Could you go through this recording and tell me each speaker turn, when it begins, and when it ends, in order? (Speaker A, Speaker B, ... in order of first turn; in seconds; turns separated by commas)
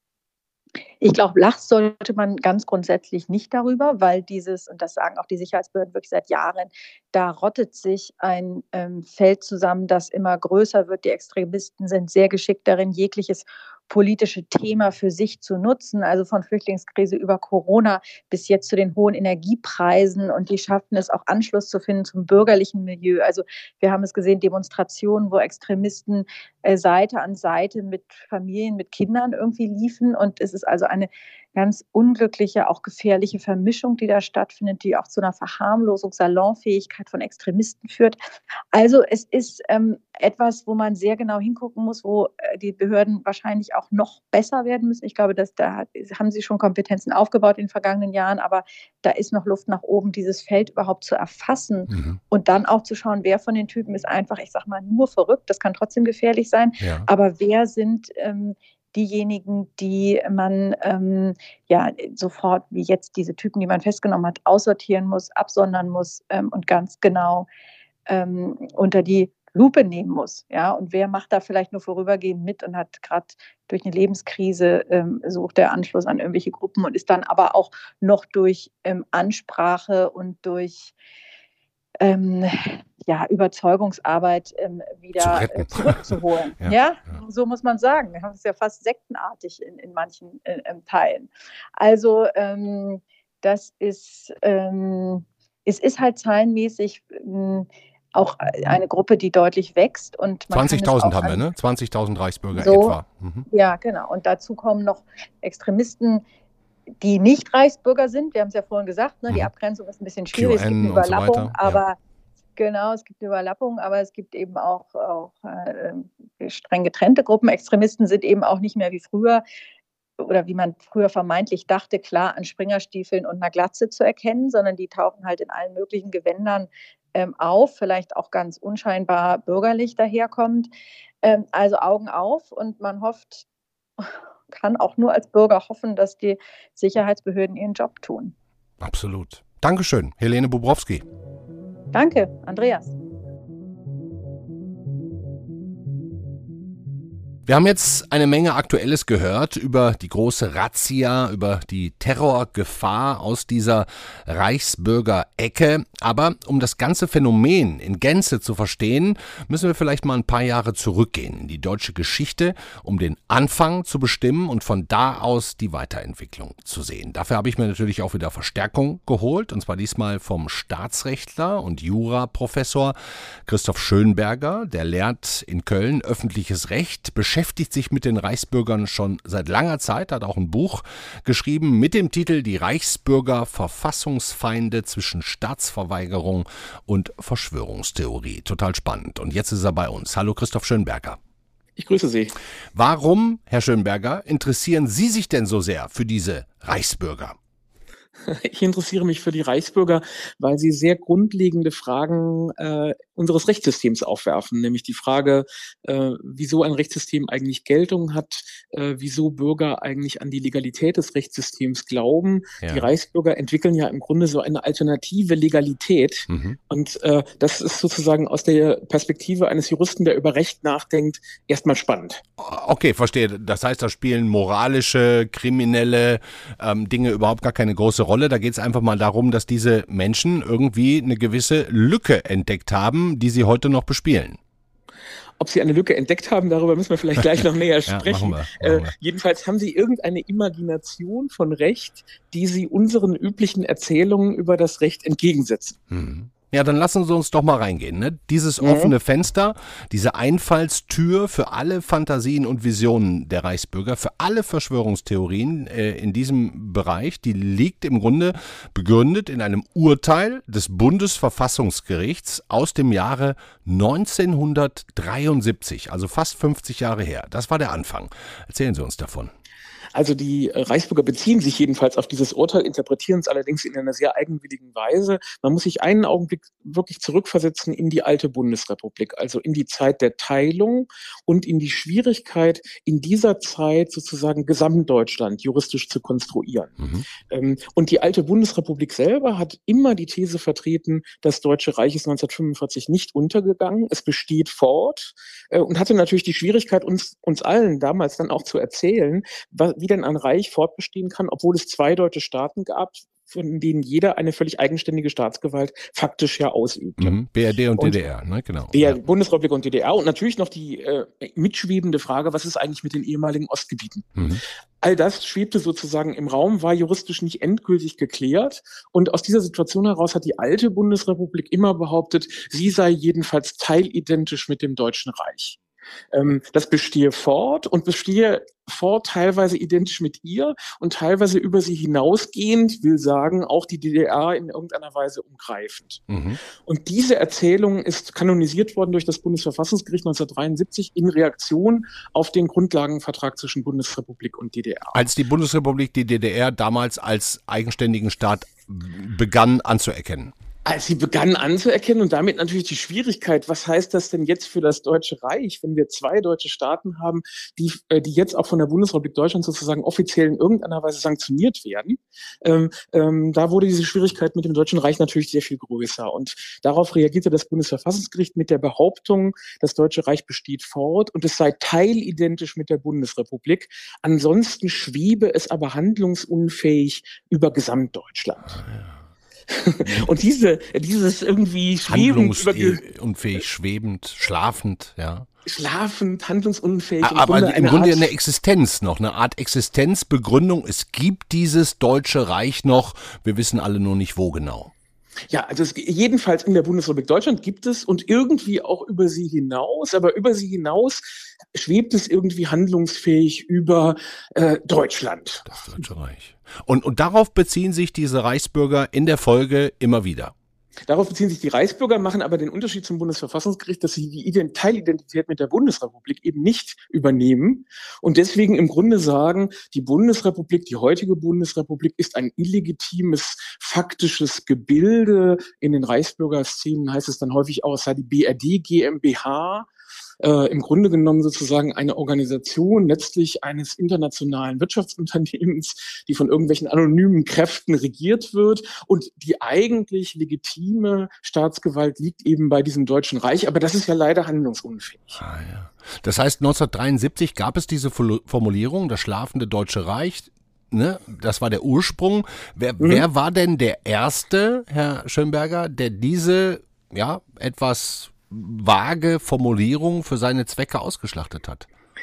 Speaker A: 1.0-38.2, Speaker A: 38.7-67.5, Speaker B: 51.9-52.2, Speaker B: 56.8-57.1, Speaker A: 68.1-80.9, Speaker A: 82.0-101.4, Speaker B: 85.2-87.2, Speaker B: 100.5-103.5, Speaker A: 102.5-103.0, Speaker A: 103.5-106.2, Speaker A: 107.0-112.0, Speaker B: 110.3-111.8, Speaker A: 112.6-119.4, Speaker A: 120.2-130.7, Speaker A: 131.2-133.4, Speaker A: 134.0-138.3, Speaker B: 138.8-141.0, Speaker A: 141.9-142.9, Speaker B: 147.5-172.9, Speaker B: 173.4-191.2, Speaker C: 191.8-192.3, Speaker B: 192.7-197.4, Speaker C: 198.2-222.2, Speaker B: 212.6-212.9, Speaker B: 216.3-216.6, Speaker B: 222.4-234.4, Speaker C: 235.4-245.8, Speaker B: 237.9-238.9, Speaker B: 245.9-269.3, Speaker C: 248.6-248.9, Speaker C: 269.9-286.8, Speaker B: 286.8-287.0, Speaker C: 287.3-307.2, Speaker B: 307.0-309.0, Speaker C: 308.7-325.6, Speaker B: 314.1-314.4, Speaker C: 326.1-336.1, Speaker B: 336.1-336.4, Speaker C: 336.6-345.1, Speaker B: 344.9-350.3, Speaker C: 350.6-378.6, Speaker C: 379.5-382.8, Speaker B: 381.9-385.3, Speaker C: 385.4-388.1, Speaker B: 387.0-394.7, Speaker C: 395.3-405.6, Speaker B: 405.5-410.3, Speaker C: 410.9-429.7, Speaker C: 430.2-445.2, Speaker B: 445.2-461.7, Speaker C: 452.8-453.1